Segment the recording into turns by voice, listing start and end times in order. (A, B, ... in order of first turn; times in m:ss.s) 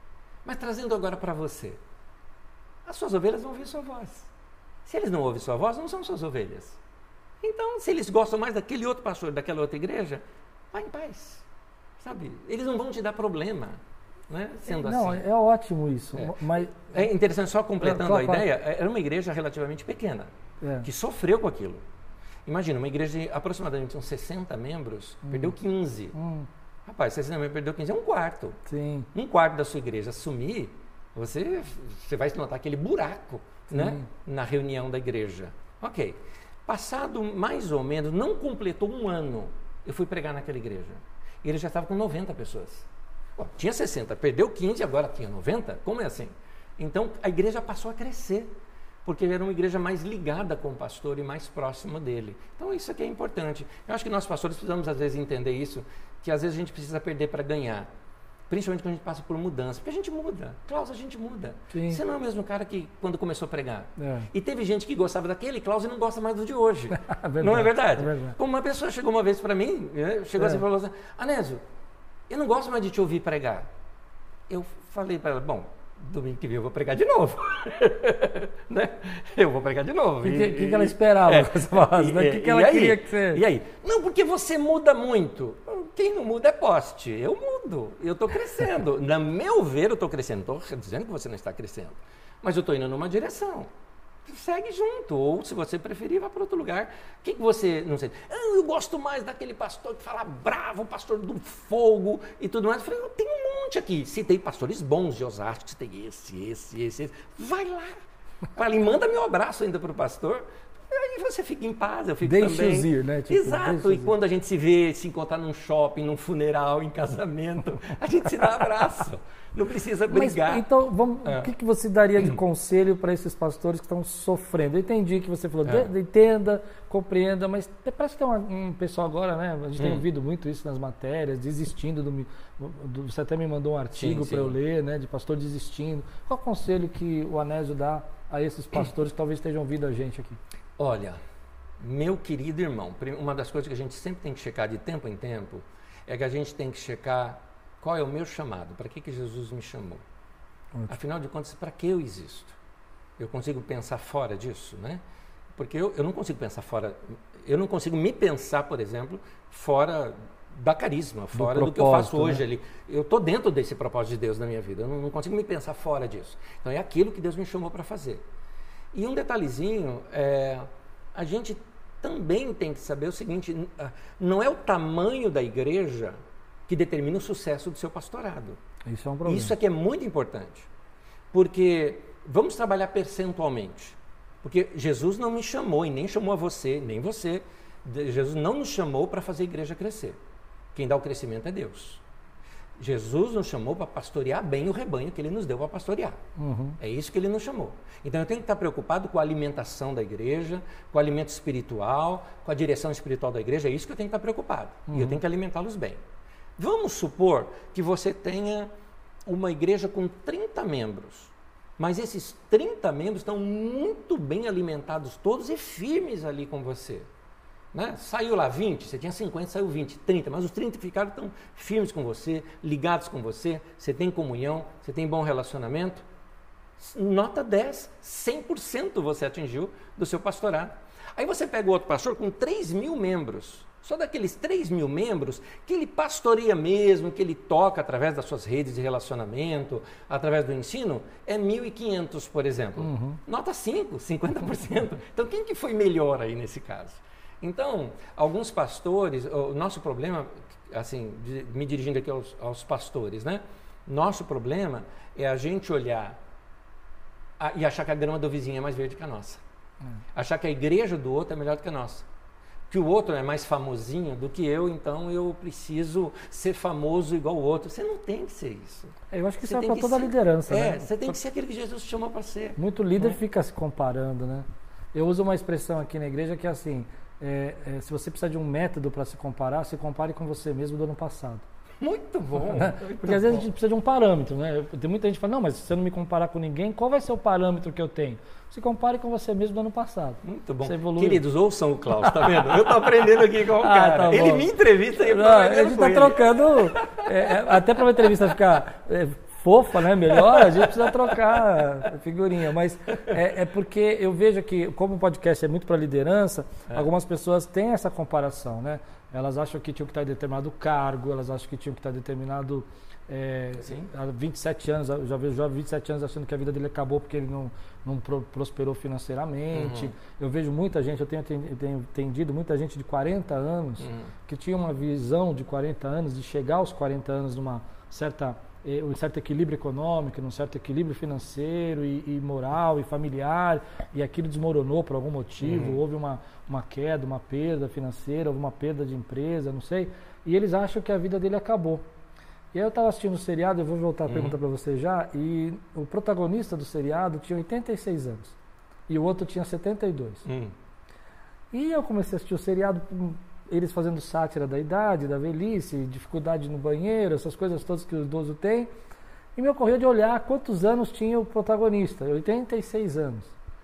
0:00.4-0:01.8 A
0:02.8-0:04.3 A
0:04.8-0:06.8 A
0:07.4-0:11.4 A
0:12.0-0:15.2 A
0:14.7-0:17.1 B
0:16.1-0:20.3 A
0:17.8-0:18.4 B
0:20.6-0:20.9 B
0:20.8-0:21.8 A
0:22.4-0:26.1 A
0:25.2-0:25.5 B
0:26.1-0:26.5 B
0:26.8-0:28.6 A
0:28.7-0:29.1 B
0:29.1-0:57.9 A
0:33.7-0:34.0 B
0:58.5-1:11.6 A
1:01.7-1:02.0 B
1:04.0-1:04.3 B
1:06.9-1:08.4 B
1:12.3-1:13.7 A
1:14.5-1:33.7 A
1:20.2-1:23.4 B
1:34.2-1:48.0 A
1:48.5-2:00.7 A
1:52.2-1:54.1 B
2:00.1-2:20.4 B
2:01.2-2:01.5 A
2:09.8-2:10.0 A
2:13.9-2:14.5 A
2:20.8-2:21.2 A
2:21.8-2:30.0 A
2:30.9-2:32.6 A
2:33.2-2:48.2 A
2:41.3-2:42.4 B
2:48.9-2:56.2 A
2:56.7-2:58.6 A
2:58.9-2:59.5 B
2:59.2-3:00.7 A
3:01.3-3:10.2 A
3:10.7-3:12.0 A
3:12.8-3:16.2 A
3:16.4-3:16.8 B
3:16.8-3:26.0 A
3:24.9-3:25.2 B
3:26.6-3:28.7 A
3:29.2-3:37.1 A
3:37.7-3:46.0 A
3:46.8-4:16.2 A
4:02.8-4:03.2 B
4:17.4-4:19.4 A
4:20.1-4:22.1 A
4:22.7-4:33.2 A
4:29.1-4:31.2 B
4:32.6-4:41.4 B
4:41.8-4:43.4 A
4:42.5-4:51.2 B
4:50.2-4:57.6 A
4:52.0-4:52.5 B
4:53.6-4:54.5 B
4:55.0-5:41.8 B
5:00.2-5:01.0 A
5:13.6-5:13.9 A
5:19.5-5:19.9 A
5:23.8-5:24.1 A
5:35.4-5:35.8 A
5:42.5-5:48.4 B
5:44.1-5:44.4 A
5:48.9-5:50.2 B
5:50.2-5:50.5 A
5:51.5-5:58.7 B
5:59.4-6:03.3 B